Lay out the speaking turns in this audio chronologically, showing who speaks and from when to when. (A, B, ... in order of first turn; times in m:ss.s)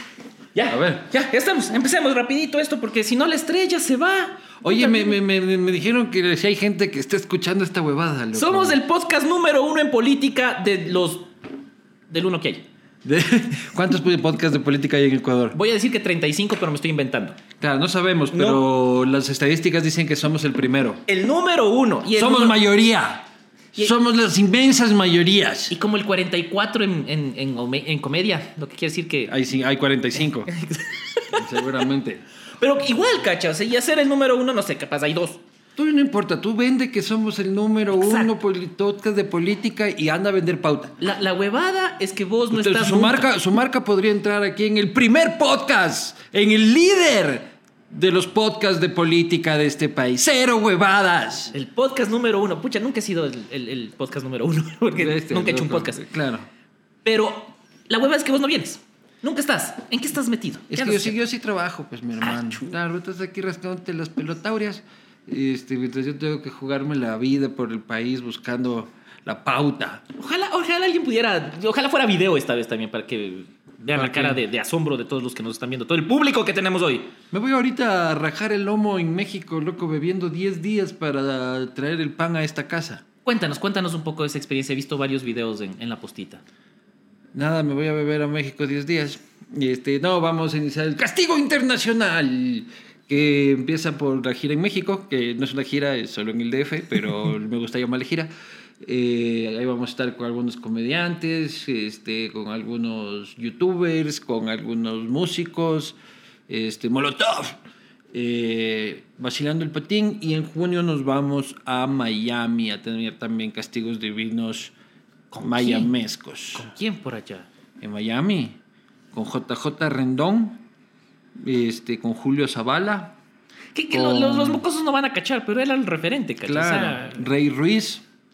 0:00.6-0:05.2 A
0:00.7-0:01.1 B
0:04.6-0:08.8 B
0:08.3-0:11.3 A
0:12.1-0:12.7 A
0:13.0-0:15.6 B
0:15.5-0:17.4 A
0:17.6-0:21.0 B
0:18.3-0:18.6 A
0:21.1-0:22.6 A
0:22.2-0:25.8 B
0:25.7-0:29.3 A
0:29.3-0:30.5 B
0:30.4-0:31.6 A
0:31.3-0:32.2 B
0:32.6-0:35.4 A
0:35.8-0:41.0 B
0:37.9-0:38.3 A
0:41.0-0:43.3 A
0:42.5-0:51.5 B
0:51.5-0:56.0 A
0:55.0-0:56.5 B
0:57.0-1:01.2 A
1:00.7-1:10.0 B
1:02.2-1:02.7 A
1:10.2-1:17.1 A
1:13.9-1:14.4 B
1:17.3-1:23.0 B
1:23.3-1:26.4 A
1:27.3-1:38.3 B
1:38.8-1:46.0 B
1:46.5-1:47.6 B
1:48.1-1:54.7 B
1:55.3-1:55.9 A
1:55.4-1:56.7 B
1:56.5-1:57.5 A
1:57.8-1:58.6 B
1:59.1-2:00.6 B
2:01.4-2:03.2 B
2:03.8-2:07.3 A
2:03.9-2:04.6 B
2:06.4-2:08.0 B